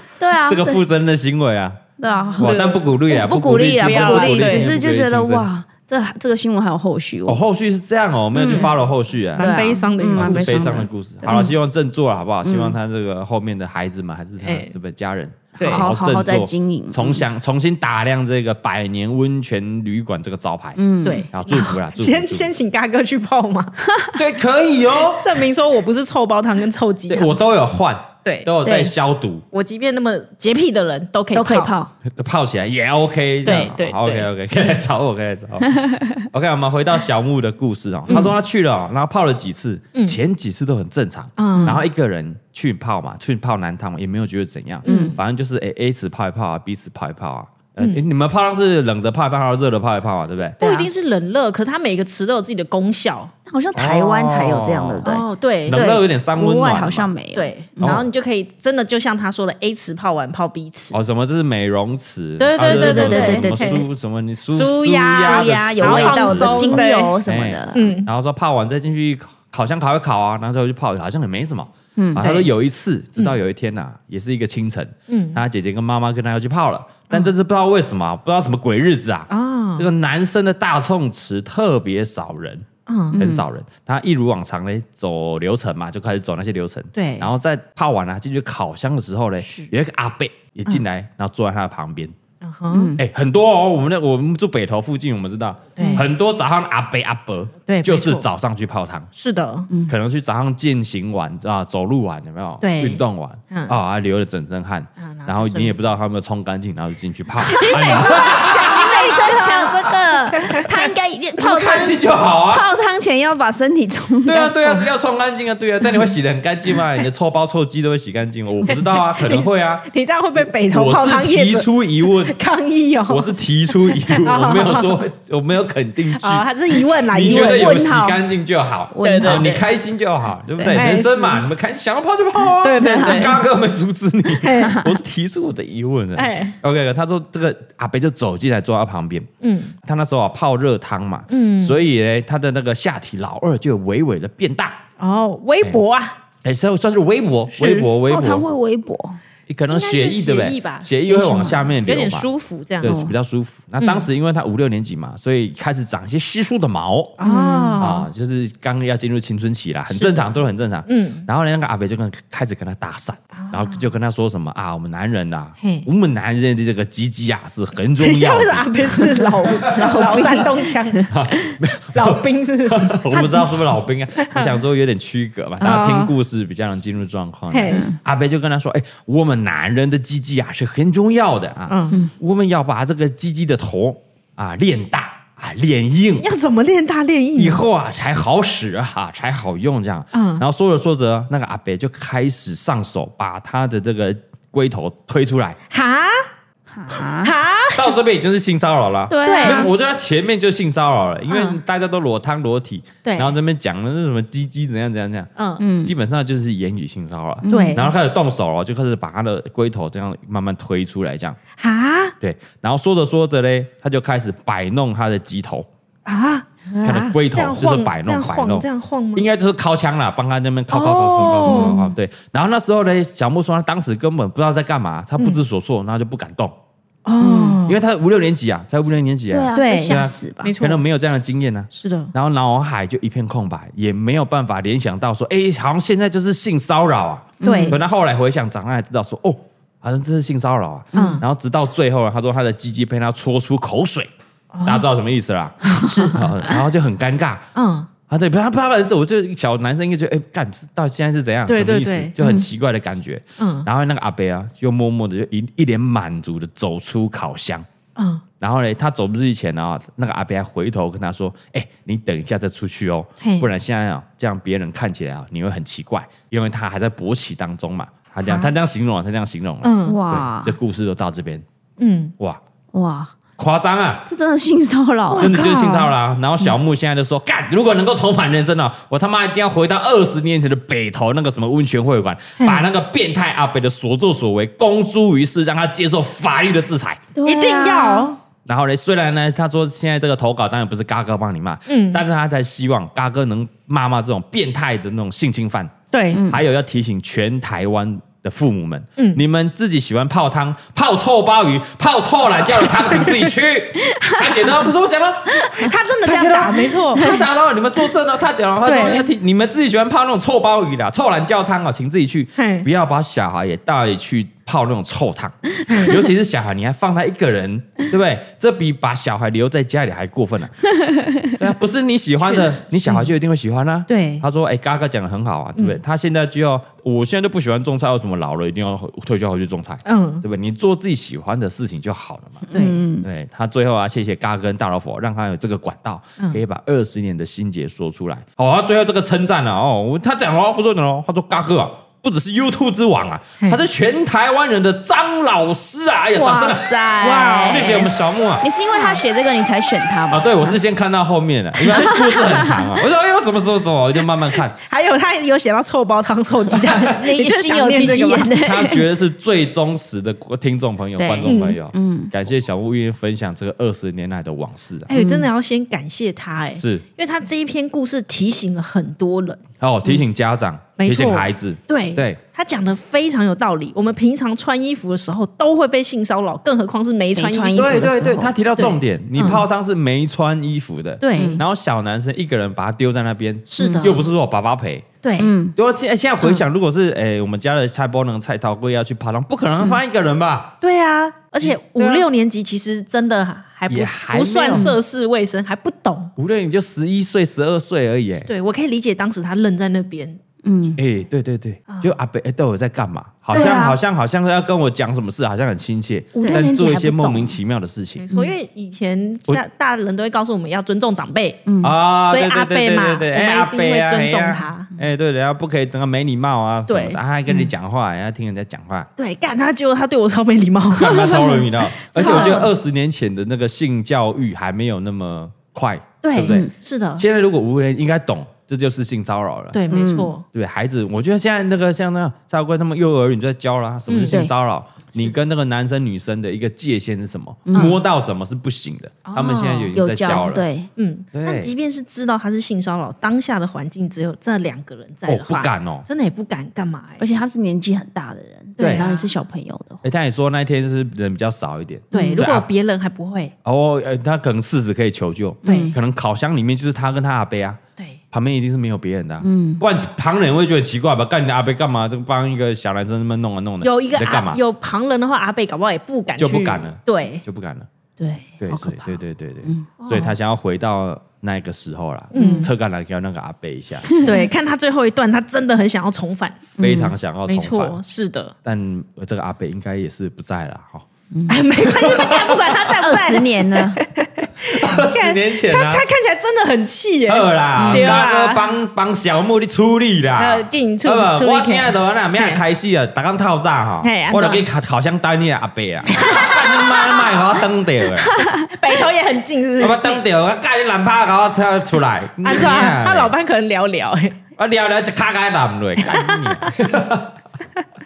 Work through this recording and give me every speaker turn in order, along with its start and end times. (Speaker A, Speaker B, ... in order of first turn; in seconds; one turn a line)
Speaker A: 0.2-0.8
Speaker B: 0.5-1.8
Speaker A: 2.0-7.4
Speaker B: 2.4-5.5
Speaker C: 3.8-4.7
Speaker B: 7.3-9.5
Speaker A: 8.3-8.7
Speaker C: 9.4-10.8
Speaker A: 9.4-11.5
Speaker B: 10.2-22.5
Speaker A: 12.4-12.8
Speaker C: 14.4-14.7
Speaker C: 15.6-15.9
Speaker A: 15.6-17.2
Speaker A: 20.8-21.3
Speaker C: 21.0-24.1
Speaker B: 24.1-25.4
Speaker C: 25.1-27.4
Speaker B: 27.1-29.4
Speaker C: 28.2-28.5
Speaker A: 28.6-28.9
Speaker C: 29.5-31.7
Speaker A: 31.3-31.9
Speaker B: 32.0-50.6
Speaker C: 33.4-34.3
Speaker A: 35.8-36.1
Speaker C: 41.4-41.8
Speaker A: 41.5-41.8
Speaker A: 44.8-45.1
Speaker C: 44.8-45.2
Speaker A: 50.6-50.9
Speaker C: 50.6-53.3
Speaker A: 53.5-58.0
Speaker B: 53.7-55.1
Speaker C: 55.0-55.8
Speaker B: 55.7-57.1
Speaker C: 57.3-61.0
Speaker B: 57.8-58.0
Speaker B: 60.9-92.2
Speaker C: 62.4-63.8
Speaker A: 62.6-63.9
Speaker C: 64.5-67.2
Speaker A: 65.2-67.8
Speaker C: 67.7-68.1
Speaker A: 72.0-72.2
Speaker C: 72.2-72.5
Speaker C: 75.1-75.4
Speaker C: 79.3-79.9
Speaker C: 82.9-83.2
Speaker A: 83.1-83.4
Speaker C: 86.9-87.3
Speaker C: 92.4-92.9
Speaker A: 92.7-93.0
Speaker B: 93.0-99.1
Speaker C: 95.8-96.1
Speaker A: 95.8-96.0
Speaker C: 97.7-98.2
Speaker C: 99.1-99.7
Speaker B: 99.9-109.1
Speaker C: 102.6-103.8
Speaker C: 105.0-105.8
Speaker C: 107.5-110.9
Speaker A: 107.5-114.7
Speaker B: 111.4-112.7
Speaker B: 114.2-119.8
Speaker C: 119.2-121.7
Speaker B: 120.7-122.3
Speaker C: 122.2-123.3
Speaker B: 123.1-126.5
Speaker C: 123.9-124.9
Speaker C: 126.2-127.8
Speaker B: 127.0-144.8
Speaker A: 127.2-128.2
Speaker A: 128.9-129.6
Speaker C: 129.0-129.6
Speaker C: 130.7-131.4
Speaker C: 132.6-133.3
Speaker A: 132.8-133.3
Speaker C: 134.4-134.8
Speaker C: 136.2-136.6
Speaker C: 139.4-139.7
Speaker C: 141.3-141.8
Speaker C: 145.0-146.2
Speaker B: 146.4-148.5
Speaker A: 147.6-149.2
Speaker B: 149.5-152.3
Speaker C: 149.7-153.0
Speaker A: 151.1-151.6
Speaker B: 152.8-157.2
Speaker A: 152.8-153.1
Speaker C: 153.8-154.1
Speaker C: 157.2-158.1
Speaker A: 157.2-157.8
Speaker B: 157.8-169.0
Speaker C: 159.9-160.2
Speaker C: 160.8-161.3
Speaker C: 163.3-163.8
Speaker C: 165.6-165.9
Speaker C: 168.0-171.1
Speaker A: 169.5-171.0
Speaker B: 171.1-186.3
Speaker C: 171.9-173.6
Speaker C: 174.2-174.5
Speaker C: 175.6-176.1
Speaker C: 177.5-177.8
Speaker A: 177.7-178.0
Speaker C: 181.7-182.0
Speaker C: 186.2-187.6
Speaker B: 187.3-195.6
Speaker C: 190.1-190.4
Speaker C: 195.7-196.3
Speaker A: 196.7-197.3
Speaker C: 196.9-197.9
Speaker B: 197.7-205.3
Speaker A: 199.1-199.7
Speaker C: 199.2-199.7
Speaker C: 203.0-203.3
Speaker C: 205.4-205.6
Speaker A: 205.6-205.9
Speaker B: 205.8-211.4
Speaker A: 207.4-207.9
Speaker C: 207.5-207.9
Speaker C: 211.6-212.1
Speaker B: 212.2-215.7
Speaker C: 216.1-219.3
Speaker B: 216.8-226.5
Speaker C: 220.7-221.8
Speaker A: 221.2-221.9
Speaker C: 227.1-227.8
Speaker A: 227.2-227.6
Speaker B: 227.7-244.1
Speaker A: 229.3-230.5
Speaker C: 229.5-230.8
Speaker C: 231.8-232.1
Speaker A: 237.4-237.8
Speaker C: 237.4-237.8
Speaker C: 240.9-241.2
Speaker C: 244.5-244.8
Speaker B: 244.6-247.4
Speaker A: 245.7-246.0
Speaker C: 245.7-246.2
Speaker C: 247.5-247.9
Speaker B: 248.1-257.6
Speaker C: 251.5-252.1
Speaker A: 252.2-252.5
Speaker C: 253.4-253.7
Speaker C: 257.9-258.2
Speaker B: 258.4-271.4
Speaker C: 263.2-263.5
Speaker C: 268.2-268.5
Speaker C: 269.6-270.0
Speaker A: 269.9-270.5
Speaker C: 271.8-272.1
Speaker A: 272.7-273.2
Speaker B: 273.4-274.1
Speaker A: 274.1-275.3
Speaker C: 275.1-275.9
Speaker B: 275.2-287.0
Speaker C: 282.4-282.6
Speaker A: 287.1-288.1
Speaker C: 287.2-288.2
Speaker B: 288.4-295.7
Speaker C: 291.7-292.0
Speaker C: 295.9-296.2
Speaker A: 296.1-296.4
Speaker B: 296.2-320.6
Speaker A: 304.0-304.2
Speaker C: 305.6-307.1
Speaker C: 308.6-309.0
Speaker C: 312.4-312.6
Speaker C: 315.7-316.0
Speaker A: 320.8-321.2
Speaker B: 321.4-332.5
Speaker C: 322.2-323.1
Speaker C: 323.9-324.2
Speaker C: 329.8-330.2
Speaker A: 332.5-333.1
Speaker C: 332.5-332.8
Speaker B: 333.0-346.7
Speaker A: 346.2-347.9
Speaker C: 346.2-347.9
Speaker B: 347.4-348.4
Speaker A: 348.4-350.6
Speaker B: 350.1-354.6
Speaker A: 351.7-352.6
Speaker C: 354.6-358.4
Speaker A: 356.8-358.8
Speaker B: 358.4-364.9
Speaker A: 361.0-362.1
Speaker C: 361.2-361.6
Speaker C: 364.9-369.4
Speaker A: 364.9-365.3
Speaker B: 366.6-366.8
Speaker B: 369.6-372.2
Speaker C: 370.8-378.0
Speaker A: 377.1-378.3
Speaker B: 377.5-384.9
Speaker C: 378.6-379.4
Speaker C: 381.0-381.4
Speaker A: 381.1-381.4
Speaker C: 383.5-384.0
Speaker A: 383.6-383.9
Speaker C: 385.0-385.3
Speaker A: 385.2-385.5
Speaker B: 385.6-390.6
Speaker C: 390.6-396.1
Speaker B: 391.4-392.1
Speaker B: 393.7-394.7
Speaker B: 396.2-398.3
Speaker C: 398.3-400.2
Speaker A: 400.4-400.8
Speaker B: 400.8-408.0
Speaker C: 401.7-401.9
Speaker A: 403.3-403.8
Speaker C: 403.3-403.6
Speaker A: 406.1-407.4
Speaker C: 406.2-406.5
Speaker C: 408.0-411.4
Speaker A: 411.4-411.8
Speaker B: 411.6-418.9
Speaker C: 412.1-414.7
Speaker C: 416.7-417.0
Speaker C: 419.0-421.4
Speaker B: 420.7-429.6
Speaker A: 421.9-422.5
Speaker C: 421.9-422.5
Speaker C: 426.0-427.0
Speaker A: 426.2-426.5
Speaker C: 429.5-430.2
Speaker A: 429.7-430.1
Speaker B: 430.3-440.4
Speaker C: 433.9-434.2
Speaker A: 437.5-437.8
Speaker C: 439.0-440.2
Speaker A: 439.7-440.7
Speaker C: 440.8-447.0
Speaker B: 441.1-441.5
Speaker B: 445.1-445.9
Speaker A: 447.0-449.8
Speaker C: 448.6-449.1
Speaker B: 448.6-448.9
Speaker B: 449.8-452.5
Speaker C: 451.9-453.3
Speaker A: 451.9-452.2
Speaker B: 453.4-457.6
Speaker C: 455.4-455.7
Speaker A: 455.4-455.8
Speaker B: 458.1-464.4
Speaker A: 459.2-459.6
Speaker C: 463.6-467.2
Speaker B: 466.2-467.7
Speaker A: 468.0-469.7
Speaker B: 468.4-474.0
Speaker C: 469.8-470.1
Speaker C: 472.1-472.5
Speaker A: 472.1-472.5
Speaker A: 473.9-474.3
Speaker C: 474.0-476.4
Speaker A: 476.6-476.9
Speaker B: 476.6-477.8
Speaker C: 477.2-478.3
Speaker B: 478.4-480.9
Speaker A: 481.1-481.4
Speaker C: 481.3-488.4
Speaker B: 481.6-482.6
Speaker A: 482.8-483.8
Speaker B: 484.4-485.8
Speaker B: 487.1-498.1
Speaker A: 487.6-488.0
Speaker C: 490.2-492.4
Speaker C: 493.8-494.4
Speaker C: 496.0-496.4
Speaker C: 498.2-500.0
Speaker B: 499.6-503.1
Speaker C: 502.2-504.2
Speaker B: 504.4-507.1